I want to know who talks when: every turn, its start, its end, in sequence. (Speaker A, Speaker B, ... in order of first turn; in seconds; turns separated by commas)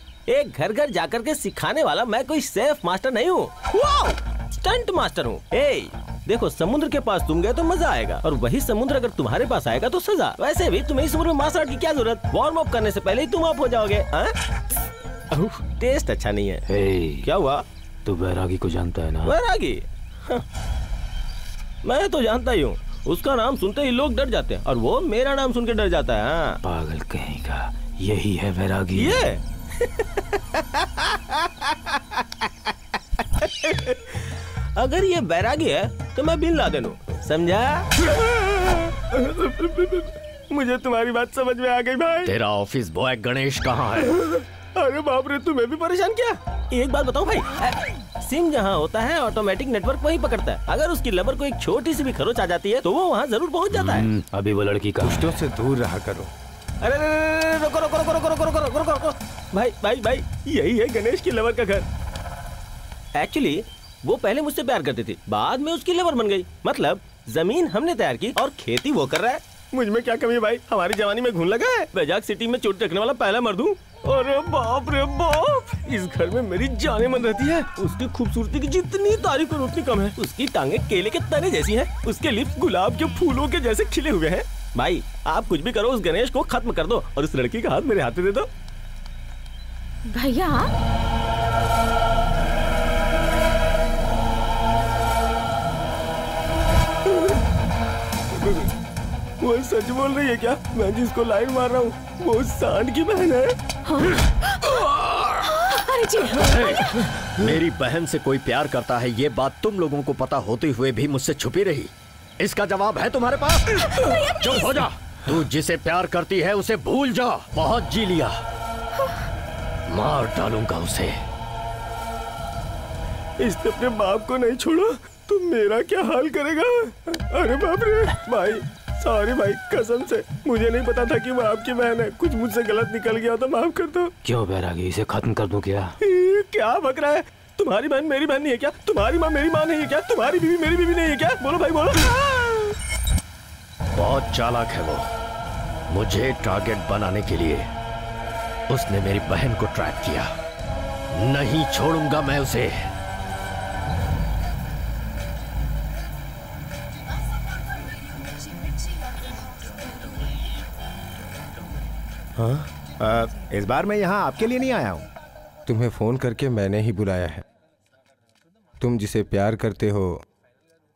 Speaker A: 0.3-14.3, Speaker A: 15.4-16.6, Speaker B: 16.6-17.3, Speaker A: 17.2-17.6, Speaker B: 18.0-19.3, Speaker A: 19.2-20.4, Speaker A: 21.8-26.6, Speaker B: 26.6-29.2, Speaker A: 28.9-29.4, Speaker A: 33.4-34.1, Speaker A: 34.8-42.3, Speaker C: 42.2-44.2, Speaker A: 44.7-54.1, Speaker B: 53.7-55.4, Speaker D: 55.0-56.3, Speaker A: 56.8-61.9, Speaker A: 63.1-88.5, Speaker E: 90.1-90.7, Speaker A: 99.4-103.5, Speaker E: 103.9-104.2, Speaker E: 105.4-107.0, Speaker C: 106.5-118.4, Speaker E: 113.8-114.8, Speaker C: 119.9-121.2, Speaker A: 123.4-134.1, Speaker B: 134.2-135.9, Speaker A: 136.0-142.6, Speaker C: 143.9-145.1, Speaker C: 145.9-147.7, Speaker C: 148.7-150.3, Speaker C: 151.1-152.9, Speaker F: 162.4-165.1, Speaker D: 165.7-167.4, Speaker D: 168.8-170.2